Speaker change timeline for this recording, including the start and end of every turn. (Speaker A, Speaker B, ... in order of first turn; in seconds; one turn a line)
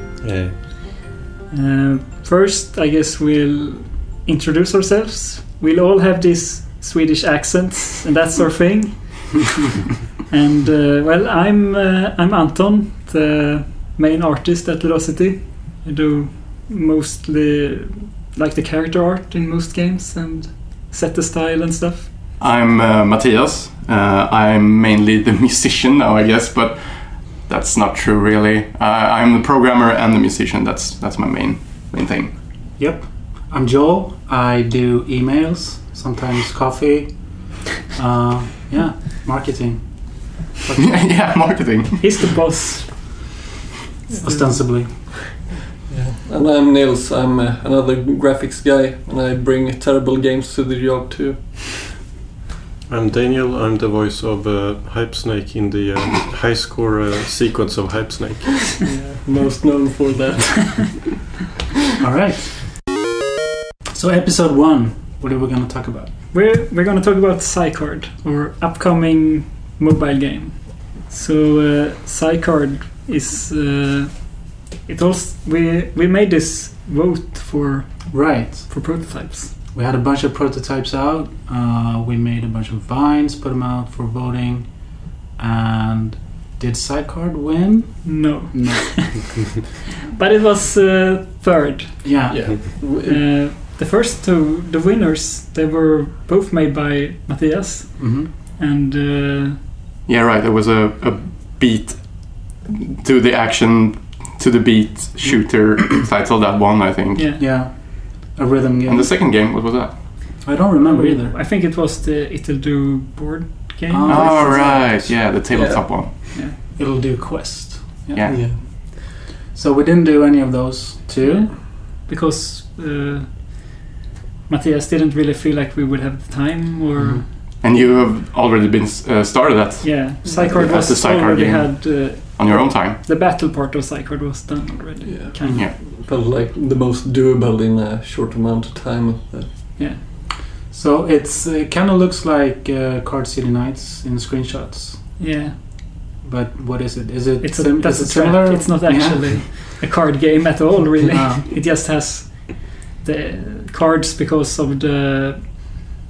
Speaker A: 0.2-0.6
Speaker B: 1.5-9.6
Speaker B: 10.3-22.1
Speaker C: 22.4-32.4
Speaker D: 32.8-41.5
Speaker C: 40.8-42.1
Speaker B: 42.0-43.2
Speaker B: 44.1-45.0
Speaker D: 44.2-45.3
Speaker E: 45.9-51.9
Speaker A: 52.9-58.8
Speaker E: 58.7-61.1
Speaker D: 62.0-62.7
Speaker D: 63.9-66.1
Speaker B: 66.3-79.5
Speaker D: 78.1-79.1
Speaker D: 79.7-89.2
Speaker B: 88.0-89.4
Speaker B: 90.1-99.6
Speaker D: 92.0-92.5
Speaker E: 92.3-93.2
Speaker D: 98.0-98.3
Speaker C: 100.0-107.3
Speaker D: 105.2-105.8
Speaker B: 107.1-107.4
Speaker D: 107.4-109.1
Speaker C: 108.8-110.4
Speaker D: 110.4-111.4
Speaker B: 110.8-114.9
Speaker D: 113.9-115.2
Speaker C: 114.0-116.1
Speaker E: 115.5-115.8
Speaker B: 116.3-116.5
Speaker D: 116.6-121.5
Speaker C: 118.1-118.5
Speaker E: 118.3-118.6
Speaker B: 121.2-123.8
Speaker B: 124.5-127.9
Speaker D: 127.0-127.2
Speaker C: 127.6-133.0
Speaker B: 129.8-135.6
Speaker E: 135.0-139.8
Speaker D: 135.4-135.7
Speaker B: 139.8-140.0
Speaker D: 140.7-145.2
Speaker B: 145.2-145.6
Speaker D: 146.2-149.5
Speaker B: 147.4-155.8
Speaker D: 151.1-151.4